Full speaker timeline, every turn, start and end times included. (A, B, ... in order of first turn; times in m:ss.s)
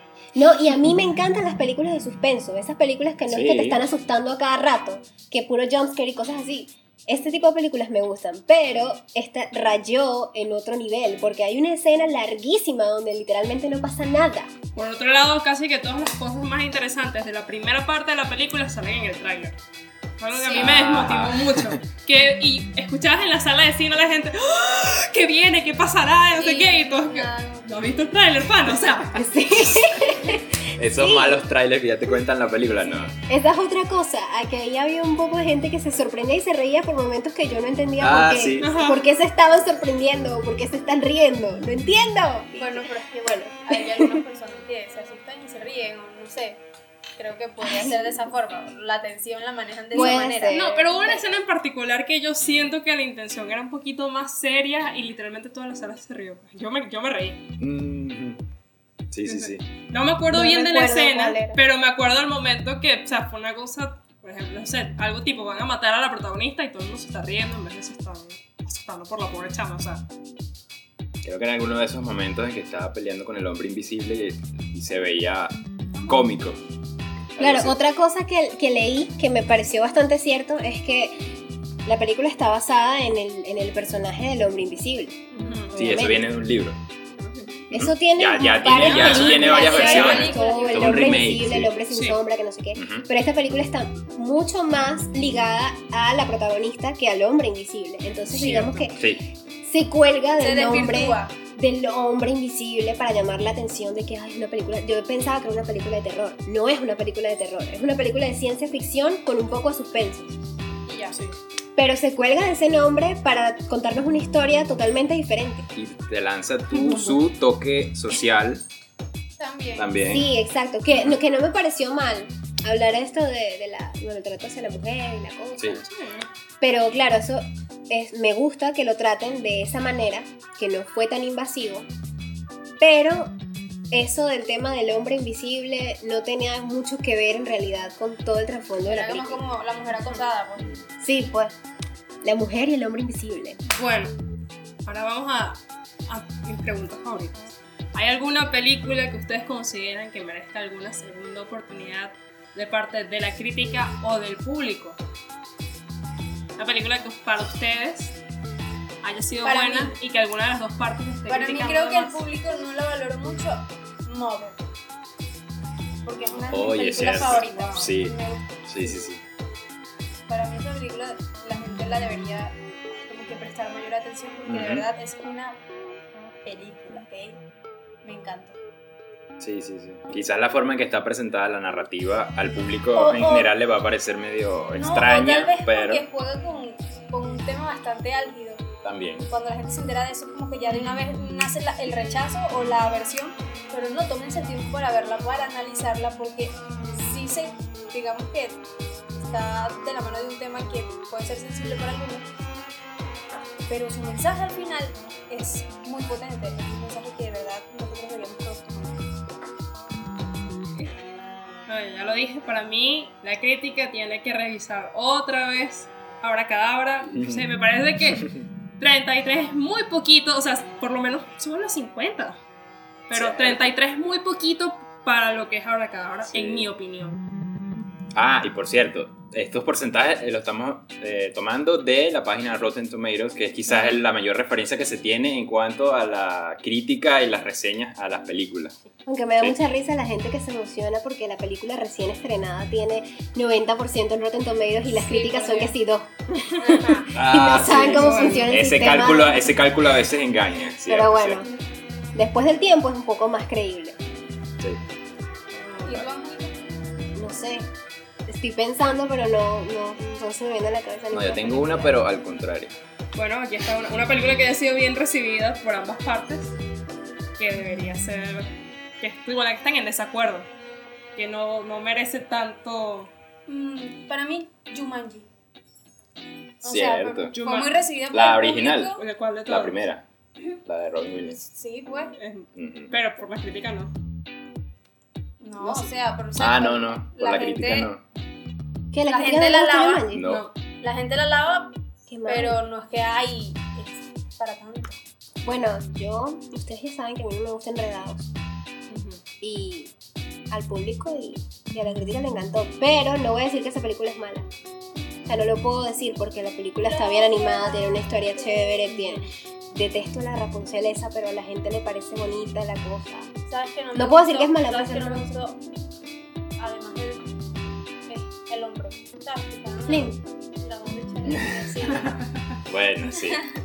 0:00.3-0:14.5 A
0:03.3-0:03.8 B
0:14.7-0:19.6 C
0:20.2-0:29.4 C
0:20.3-0:20.8 D
0:20.6-0:21.8 B
0:26.4-0:27.8 D
0:29.1-0:31.4 A
0:30.7-0:33.1 B
0:33.3-0:44.2 A
0:38.0-0:38.8 B
0:38.6-0:39.0 C
0:42.6-0:46.6 D
0:47.2-0:50.7 D
0:47.6-0:48.1 A
0:49.9-0:51.2 A
0:50.0-0:57.4 C
0:57.6-0:58.4 B
0:59.1-0:59.6 B
0:59.2-1:10.0 C
1:00.3-1:01.6 A
1:11.2-1:16.6 B
1:15.9-1:16.2 D
1:17.4-1:17.8 B
1:17.4-1:21.2 A
1:21.8-1:26.3 A
1:25.3-1:25.7 C
1:25.7-1:26.8 B
1:27.2-1:27.6 C
1:27.7-1:39.0 A
1:27.7-1:31.7 B
1:28.8-1:30.4 C
1:29.0-1:31.3 D
1:31.9-1:32.2 C
1:32.8-1:33.1 B
1:38.3-1:38.9 C
1:39.0-1:39.2 B
1:39.6-1:50.3 A
1:40.4-1:41.3 D
1:50.8-1:51.2 D
1:51.1-1:51.4 C
1:51.8-1:55.7 A
1:55.7-1:58.6 B
1:56.7-1:57.2 C
1:59.4-2:00.0 D
1:59.8-2:00.3 B
2:00.0-2:05.8 A
2:05.7-2:06.3 C
2:06.6-2:11.9 A
2:12.8-2:13.3 A
2:13.9-2:19.4 A
2:18.8-2:20.8 D
2:21.0-2:21.5 A
2:22.2-2:23.6 A
2:23.6-2:24.2 C
2:24.8-2:35.0 C
2:36.6-2:38.2 C
2:39.0-2:42.2 C
2:39.4-2:39.9 D
2:41.3-2:44.6 D
2:46.0-2:49.0 D
2:46.5-2:49.2 B
2:47.0-2:47.9 C
2:50.3-2:55.6 D
2:54.5-2:54.9 B
2:56.4-2:57.4 D
2:58.0-2:58.6 D
2:59.4-3:06.0 B
3:02.9-3:03.5 D
3:04.7-3:08.7 D
3:08.8-3:09.3 B
3:09.3-3:18.6 D
3:19.1-3:22.3 D
3:23.7-3:29.1 D
3:31.7-3:42.4 C
3:37.1-3:37.5 B
3:43.1-3:47.2 C
3:43.1-3:43.6 B
3:46.3-3:46.7 B
3:48.1-3:58.7 B
3:59.1-4:09.5 A
4:04.9-4:05.7 D
4:06.6-4:07.1 D
4:07.1-4:11.4 B
4:07.9-4:08.5 C
4:10.8-4:11.5 A
4:12.1-4:14.0 A
4:15.5-4:16.0 C
4:15.8-4:16.7 D
4:17.1-4:17.7 A
4:18.3-4:22.0 A
4:21.1-4:22.8 B
4:23.1-4:26.6 C
4:27.4-4:30.5 C
4:31.2-4:33.1 C
4:33.5-4:35.3 D
4:36.6-4:37.3 B
4:36.6-4:39.0 D
4:37.3-4:37.9 C
4:38.1-4:40.0 B
4:39.0-4:39.8 C
4:40.6-4:41.4 B
4:41.4-4:42.1 D
4:42.2-4:43.9 C
4:42.6-4:42.9 B
4:45.4-4:47.9 D
4:45.6-4:45.9 C
4:46.4-4:48.0 B
4:48.9-4:50.3 A
4:49.1-4:55.0 D
4:50.1-4:50.5 B
4:50.2-4:50.5 C
4:52.1-4:52.6 A
4:55.4-4:58.3 A
4:58.9-4:59.2 C
4:59.4-4:59.9 A
5:00.5-5:04.5 A
5:05.2-5:13.3 A
5:06.8-5:09.2 D
5:13.5-5:15.6 D
5:13.9-5:15.3 A
5:16.6-5:17.3 D
5:18.1-5:22.2 D
5:19.8-5:20.2 A
5:21.2-5:22.0 B
5:22.6-5:23.4 B
5:23.1-5:23.4 D